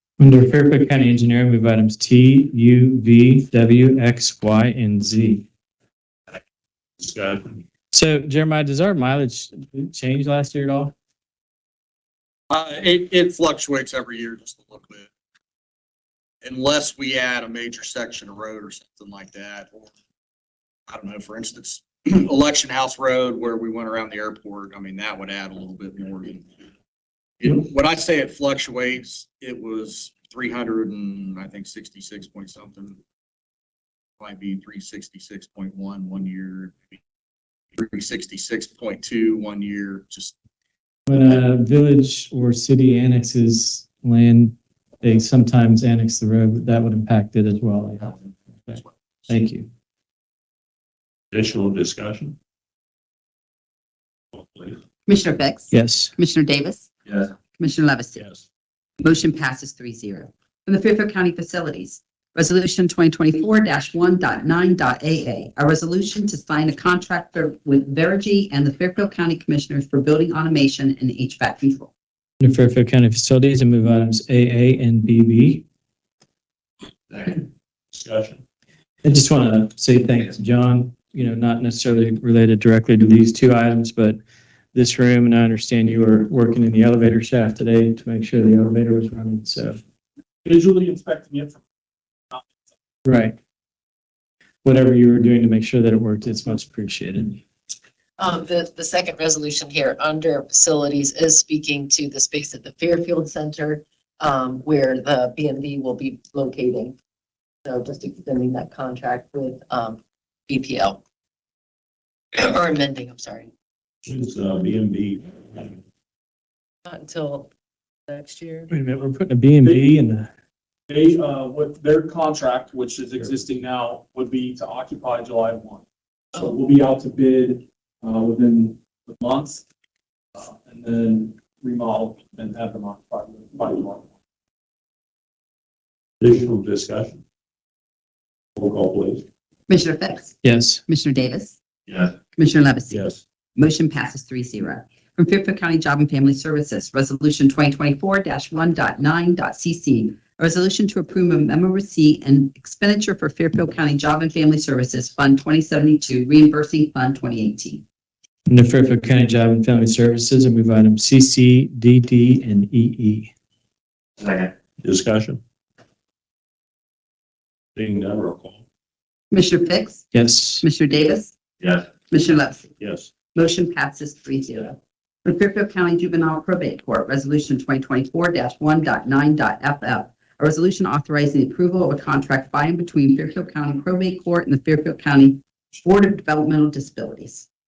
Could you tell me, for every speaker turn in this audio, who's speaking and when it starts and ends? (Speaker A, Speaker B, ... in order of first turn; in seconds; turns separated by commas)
Speaker A: 0.2-5.5, Speaker B: 7.0-7.6, Speaker A: 7.9-10.9, Speaker C: 12.5-15.1, Speaker C: 16.4-19.9, Speaker C: 20.9-26.5, Speaker C: 27.4-33.0, Speaker C: 34.2-37.0, Speaker C: 37.8-40.4, Speaker A: 41.1-49.7, Speaker B: 51.3-52.4, Speaker B: 54.3-54.8, Speaker D: 55.1-56.9, Speaker A: 55.7-56.1, Speaker D: 57.6-58.2, Speaker B: 58.2-58.5, Speaker D: 59.0-71.9, Speaker A: 72.4-75.6, Speaker B: 77.9-78.4, Speaker A: 79.0-84.2, Speaker A: 84.7-89.8, Speaker E: 90.5-91.6, Speaker A: 93.0-93.4, Speaker A: 94.6-97.4, Speaker F: 98.2-107.0, Speaker F: 107.7-111.0, Speaker F: 112.3-113.5, Speaker B: 114.0-115.8, Speaker F: 116.8-117.5, Speaker F: 118.1-118.7, Speaker A: 118.7-120.3, Speaker E: 119.6-119.9, Speaker E: 120.9-129.6, Speaker E: 130.3-134.1, Speaker B: 136.2-137.2, Speaker B: 138.6-139.2, Speaker D: 139.7-141.6, Speaker A: 140.4-140.8, Speaker D: 142.3-157.8, Speaker B: 142.9-143.2, Speaker A: 158.5-163.3, Speaker B: 164.8-165.4, Speaker B: 167.8-168.6, Speaker D: 169.3-170.1, Speaker A: 170.1-170.7, Speaker D: 170.6-171.3, Speaker D: 172.1-172.7, Speaker B: 172.8-173.1, Speaker D: 173.3-187.5